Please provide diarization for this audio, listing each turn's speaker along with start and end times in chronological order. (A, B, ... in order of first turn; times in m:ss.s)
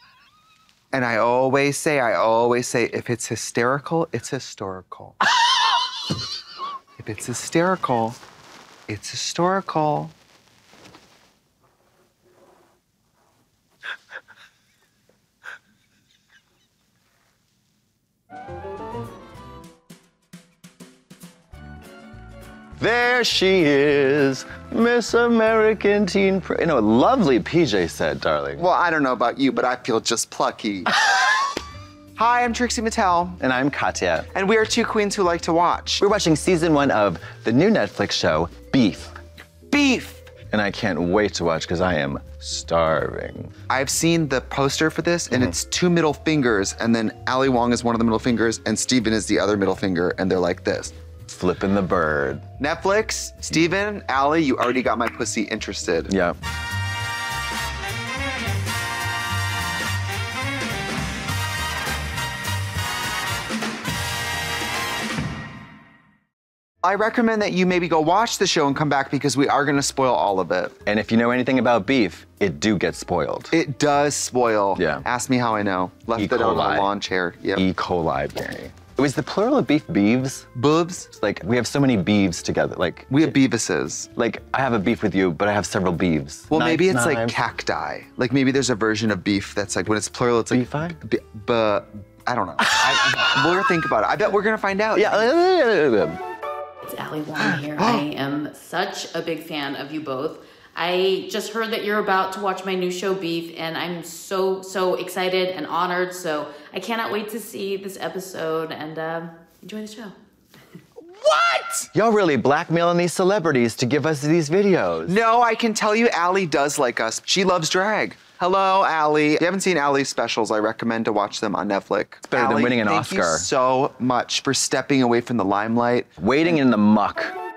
0:00.9-0:05.2 A
0:07.0-0:08.2 A
0:08.9-0:10.1 A
0:22.8-0:28.6 B
0:28.6-0:30.9 A
0:32.2-0:33.4 A
0:33.4-0:34.3 B
0:34.3-0:36.0 A
0:36.0-0:39.2 B
0:39.7-0:40.3 A
0:40.5-0:43.5 B
0:43.7-0:50.9 A
0:51.3-0:52.4 B
0:52.6-0:56.1 A
0:56.1-0:56.4 B
1:06.8-1:10.8 A
1:10.8-1:13.5 B
1:13.5-1:17.6 A
1:14.8-1:15.0 B
1:16.2-1:16.9 B
1:17.6-1:20.5 B
1:20.5-1:21.1 A
1:21.1-1:23.4 B
1:23.1-1:24.1 A
1:24.2-1:27.4 B
1:26.5-1:35.3 A
1:30.5-1:31.0 B
1:32.6-1:33.5 B
1:34.9-1:36.2 B
1:36.8-1:50.2 C
1:51.0-1:51.9 A
1:51.9-1:55.2 B
1:55.1-2:06.1 A
2:02.3-2:03.5 B
2:06.2-2:07.4 B